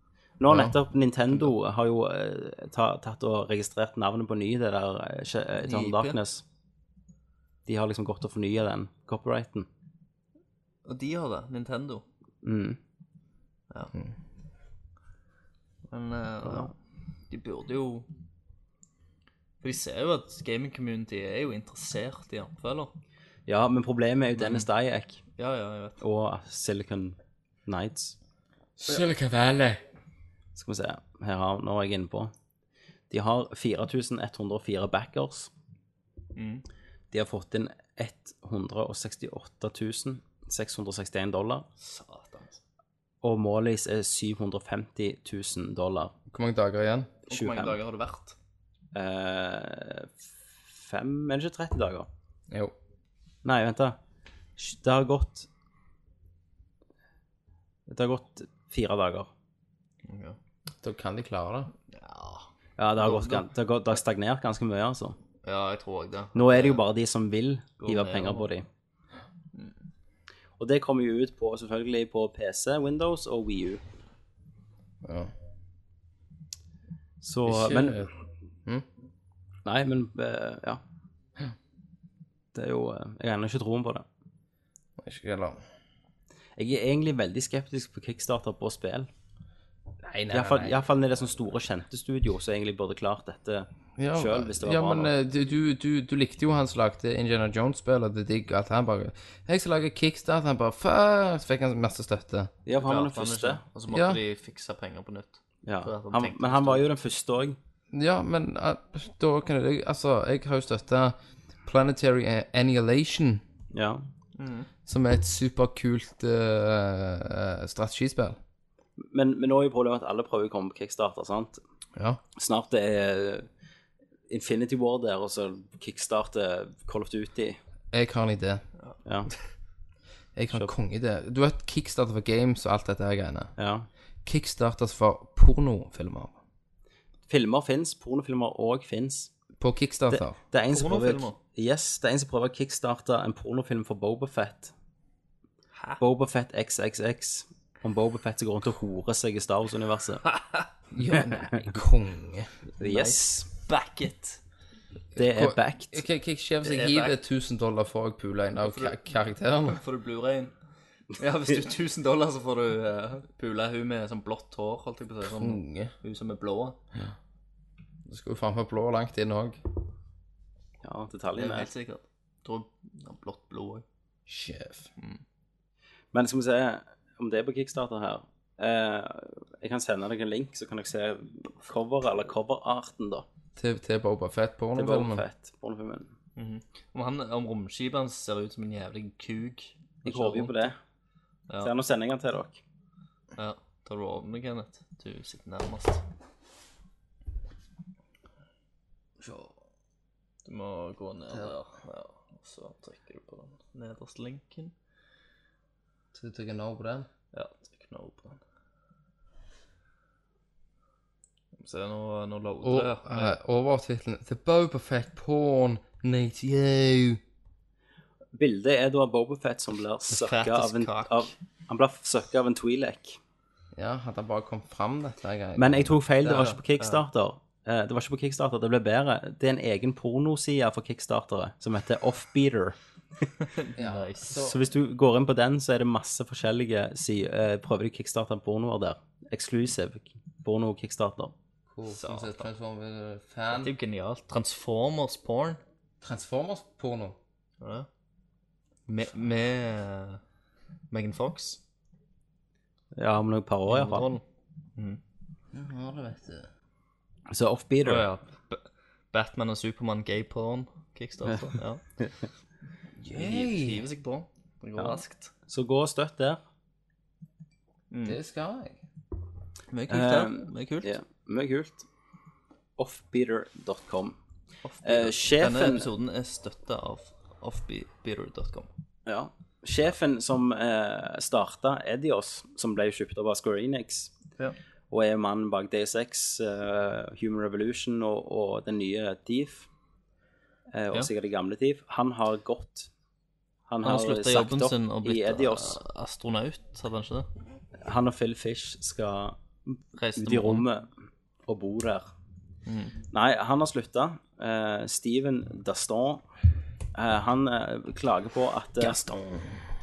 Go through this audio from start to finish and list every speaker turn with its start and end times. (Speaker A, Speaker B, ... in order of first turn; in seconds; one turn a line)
Speaker A: 0.4-6.4
Speaker B: 0.5-0.7
Speaker C: 5.6-6.2
Speaker A: 7.7-9.7
Speaker C: 10.8-12.0
Speaker A: 12.4-12.8
Speaker C: 15.9-16.7
Speaker A: 16.4-16.7
Speaker C: 17.3-18.1
Speaker C: 19.6-22.9
Speaker A: 23.5-25.2
Speaker C: 24.4-24.7
Speaker C: 25.4-26.0
Speaker A: 26.0-28.1
Speaker B: 28.8-29.8
Speaker A: 30.5-32.3
Speaker A: 33.1-35.5
Speaker C: 36.4-36.6
Speaker A: 37.1-41.6
Speaker C: 41.8-42.6
Speaker A: 43.2-46.1
Speaker B: 46.3-47.1
Speaker A: 47.3-47.8
Speaker C: 47.3-48.4
Speaker A: 48.9-52.1
Speaker A: 53.4-54.0
Speaker A: 54.6-55.5
Speaker A: 57.9-59.3
Speaker C: 60.0-60.4
Speaker B: 60.8-61.7
Speaker C: 61.9-62.5
Speaker A: 62.8-65.2
Speaker C: 63.0-63.5
Speaker C: 65.4-66.8
Speaker A: 66.3-68.7
Speaker C: 67.8-68.5
Speaker A: 70.6-73.8
Speaker B: 75.0-75.3
Speaker A: 77.2-78.0
Speaker B: 77.5-78.1
Speaker A: 79.6-80.8
Speaker A: 82.5-84.0
Speaker B: 85.0-85.6
Speaker A: 86.6-89.1
Speaker B: 90.0-90.8
Speaker A: 90.3-95.1
Speaker B: 94.0-102.5
Speaker A: 102.7-103.6
Speaker C: 102.8-106.9
Speaker B: 103.9-104.2
Speaker A: 105.7-107.6
Speaker B: 107.9-113.4
Speaker A: 113.7-114.0
Speaker C: 114.4-114.7
Speaker B: 114.9-118.4
Speaker A: 119.0-121.6
Speaker A: 122.3-123.5
Speaker A: 124.3-127.6
Speaker B: 127.9-128.6
Speaker A: 129.0-129.3
Speaker B: 130.3-133.5
Speaker A: 133.6-133.9
Speaker B: 134.2-136.3
Speaker A: 137.3-139.3
Speaker B: 139.6-140.4
Speaker A: 140.1-144.7
Speaker C: 140.7-141.4
Speaker A: 146.0-150.2
Speaker C: 150.3-150.7
Speaker B: 150.9-152.5
Speaker A: 151.1-151.7
Speaker A: 152.8-153.5
Speaker C: 152.8-154.4
Speaker B: 155.1-159.8
Speaker A: 155.2-156.0
Speaker C: 156.6-157.2
Speaker C: 158.6-159.0
Speaker C: 159.7-160.5
Speaker C: 161.1-166.8
Speaker B: 165.3-165.9
Speaker B: 168.1-169.6
Speaker A: 170.8-171.7
Speaker C: 171.3-173.8
Speaker B: 174.3-174.9
Speaker A: 176.1-183.2
Speaker B: 183.6-185.2
Speaker A: 184.7-186.1
Speaker C: 186.4-190.7
Speaker A: 190.0-190.8
Speaker C: 191.5-191.7
Speaker A: 191.6-192.6
Speaker C: 193.4-196.0
Speaker B: 199.2-199.5
Speaker C: 200.4-204.7
Speaker B: 206.1-207.1
Speaker C: 207.3-208.4
Speaker C: 211.6-213.3
Speaker B: 212.6-217.2
Speaker A: 218.3-223.2
Speaker C: 220.1-221.3
Speaker B: 223.7-226.0
Speaker A: 225.6-232.8
Speaker C: 226.2-227.0
Speaker C: 233.5-234.4
Speaker B: 233.8-234.6
Speaker A: 234.3-241.3
Speaker B: 241.7-243.7
Speaker C: 241.9-242.5
Speaker C: 243.5-245.6
Speaker B: 246.0-247.2
Speaker C: 247.6-247.9
Speaker C: 248.9-250.2
Speaker C: 250.9-251.6
Speaker A: 252.9-254.1
Speaker C: 253.7-254.2
Speaker B: 255.5-256.5
Speaker A: 257.3-258.1
Speaker C: 257.8-262.1
Speaker B: 263.0-263.8
Speaker C: 263.1-265.3
Speaker A: 264.8-266.4
Speaker C: 267.9-268.2
Speaker B: 268.0-268.8
Speaker C: 269.7-270.9
Speaker A: 269.9-271.9
Speaker A: 272.8-274.2
Speaker C: 274.6-278.7
Speaker A: 274.8-275.9
Speaker A: 279.1-284.1
Speaker A: 284.9-289.7
Speaker A: 290.7-292.9
Speaker A: 293.7-295.8
Speaker C: 293.8-297.3
Speaker A: 297.8-300.9
Speaker C: 300.0-300.6
Speaker A: 301.5-302.1
Speaker C: 302.6-303.0
Speaker A: 303.1-306.2
Speaker A: 306.9-309.1
Speaker B: 309.0-309.4